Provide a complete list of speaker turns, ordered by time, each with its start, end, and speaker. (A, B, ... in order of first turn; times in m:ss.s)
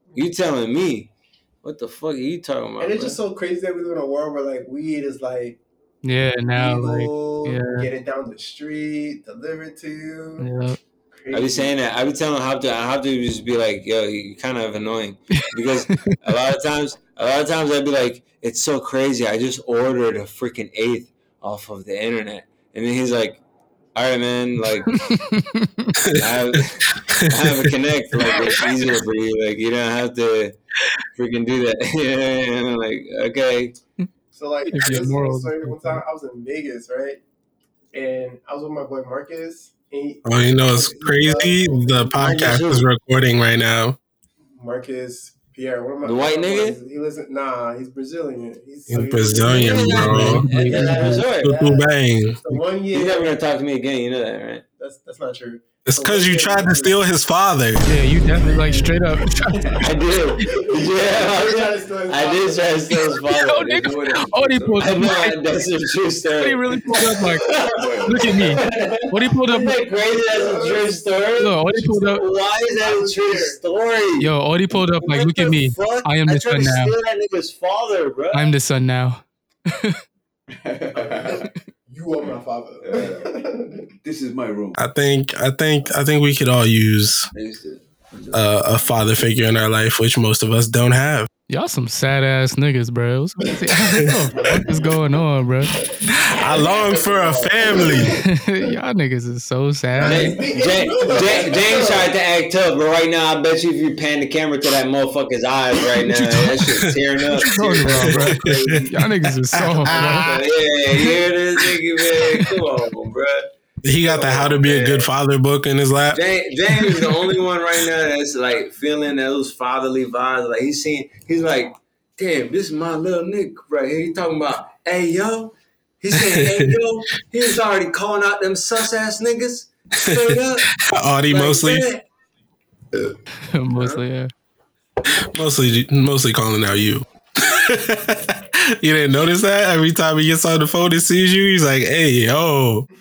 0:00.1-0:01.1 A
0:01.6-0:03.2 A
0:02.8-0:05.6 B
0:06.0-0:07.9 C
0:06.5-0:10.5 B
0:10.4-0:10.8 C
0:11.1-0:11.7 B
0:11.3-0:23.4 A
0:24.0-0:25.0 A
0:24.9-0:26.0 C
0:26.0-0:26.3 D
0:26.2-0:30.6 A
0:27.1-0:27.7 D
0:28.1-0:28.7 C
0:31.2-0:33.7 A
0:34.3-0:37.2 B
0:34.7-0:36.0 C
0:37.9-0:42.4 B
0:40.2-0:44.0 D
0:42.2-0:42.9 A
0:44.6-0:53.3 B
0:46.0-0:46.8 A
0:48.9-0:52.4 D
0:49.5-0:51.6 A
0:49.9-0:51.2 C
0:52.9-0:54.6 A
0:54.8-0:57.0 B
0:55.8-0:57.8 D
0:57.8-0:59.8 C
0:58.4-0:59.0 B
0:59.5-0:59.9 E
0:59.8-1:03.9 A
1:00.5-1:03.0 B
1:03.3-1:05.4 C
1:03.7-1:05.0 E
1:04.8-1:06.6 A
1:06.4-1:07.5 C
1:06.8-1:07.4 B
1:07.4-1:18.4 A
1:07.7-1:08.4 E
1:08.0-1:09.7 C
1:09.6-1:12.2 B
1:11.4-1:12.2 C
1:12.7-1:13.6 B
1:14.2-1:16.9 C
1:18.3-1:20.0 C
1:20.5-1:21.5 E
1:21.3-1:23.8 B
1:22.8-1:24.8 E
1:24.8-1:27.3 D
1:27.3-1:28.5 A
1:28.3-1:31.3 D
1:31.5-1:35.8 C
1:36.2-1:38.2 D
1:36.3-1:38.7 B
1:38.2-1:40.4 C
1:39.9-1:42.1 B
1:40.0-1:49.0 A
1:46.1-1:46.5 C
1:46.6-1:47.0 D
1:47.4-1:50.2 C
1:47.9-1:50.3 D
1:49.9-1:53.5 A
1:53.8-1:56.2 D
1:54.0-1:55.1 A
1:56.1-2:10.7 A
2:06.1-2:06.8 D
2:10.0-2:11.9 D
2:11.3-2:12.0 A
2:13.5-2:14.3 C
2:13.8-2:14.0 A
2:15.1-2:22.9 D